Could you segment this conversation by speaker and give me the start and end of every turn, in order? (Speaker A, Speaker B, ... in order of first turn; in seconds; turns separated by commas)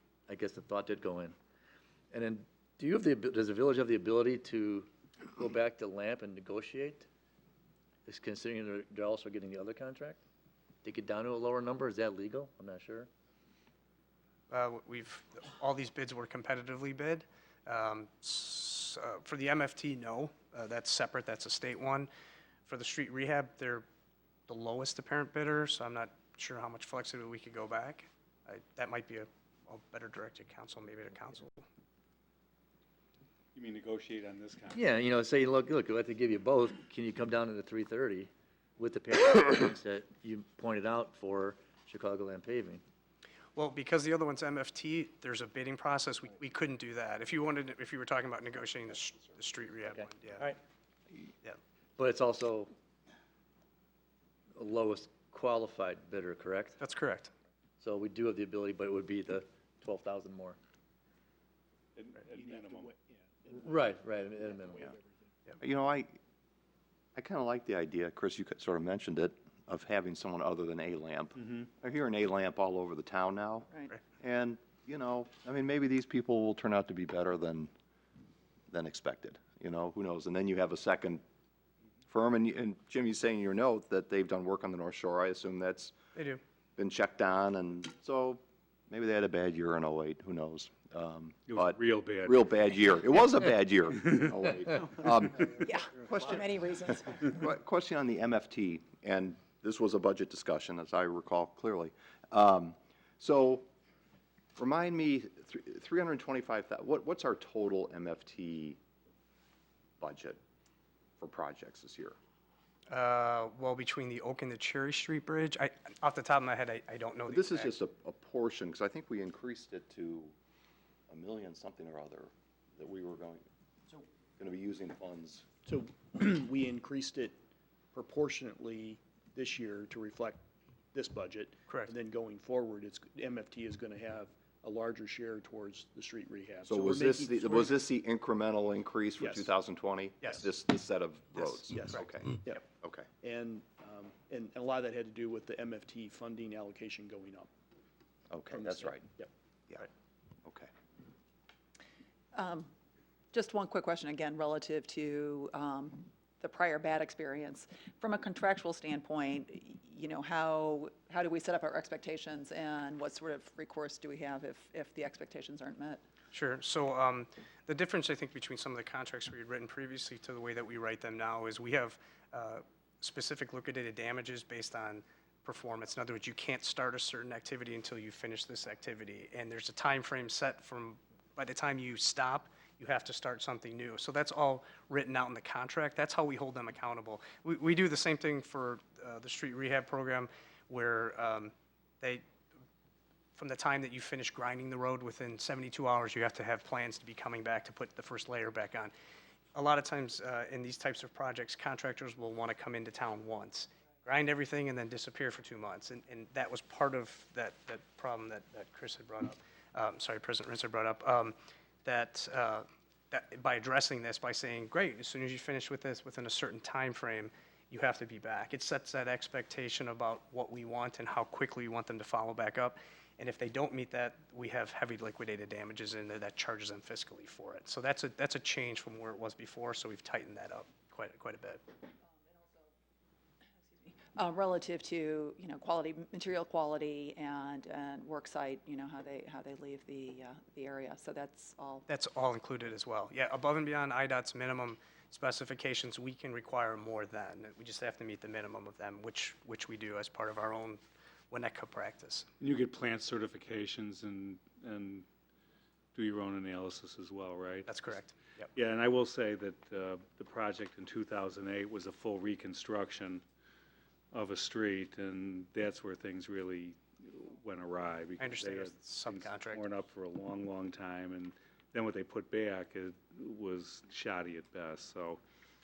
Speaker A: 0.3-1.4, Speaker A: 2.1-7.1, Speaker A: 8.1-10.2, Speaker A: 10.8-13.1, Speaker B: 14.5-22.1, Speaker B: 22.7-23.9, Speaker B: 24.5-31.6, Speaker C: 33.5-34.8, Speaker A: 34.7-42.8, Speaker B: 43.6-50.5, Speaker A: 50.0-50.6, Speaker A: 52.0-52.7, Speaker A: 54.5-56.8, Speaker B: 56.8-57.3, Speaker A: 57.8-60.6, Speaker C: 62.0-62.9, Speaker D: 62.4-65.3, Speaker A: 63.5-64.9, Speaker E: 65.6-66.2, Speaker E: 67.2-77.7, Speaker E: 78.7-81.2, Speaker E: 82.1-86.0, Speaker B: 86.2-86.4, Speaker E: 86.8-95.5, Speaker C: 91.5-92.5, Speaker F: 95.5-97.3, Speaker E: 97.2-103.7, Speaker E: 104.6-108.8, Speaker E: 110.0-110.4, Speaker E: 111.2-112.2, Speaker B: 112.9-117.7, Speaker E: 117.3-120.3, Speaker E: 121.1-123.5, Speaker E: 124.4-125.5, Speaker D: 125.7-127.4, Speaker D: 127.9-130.4, Speaker D: 130.9-137.7, Speaker E: 136.7-143.1, Speaker D: 139.2-139.5, Speaker D: 141.7-142.6, Speaker D: 143.2-147.5, Speaker E: 148.3-149.1, Speaker D: 148.5-149.3, Speaker E: 150.4-150.7, Speaker F: 152.3-152.7, Speaker F: 153.3-166.0, Speaker B: 166.3-192.2, Speaker B: 193.3-198.9, Speaker B: 199.6-231.6, Speaker F: 232.1-232.7, Speaker F: 233.5-241.9, Speaker B: 241.9-252.3, Speaker C: 252.4-255.1, Speaker C: 255.9-258.0, Speaker B: 257.7-258.2, Speaker C: 258.5-263.2, Speaker C: 264.1-275.2, Speaker B: 268.2-269.6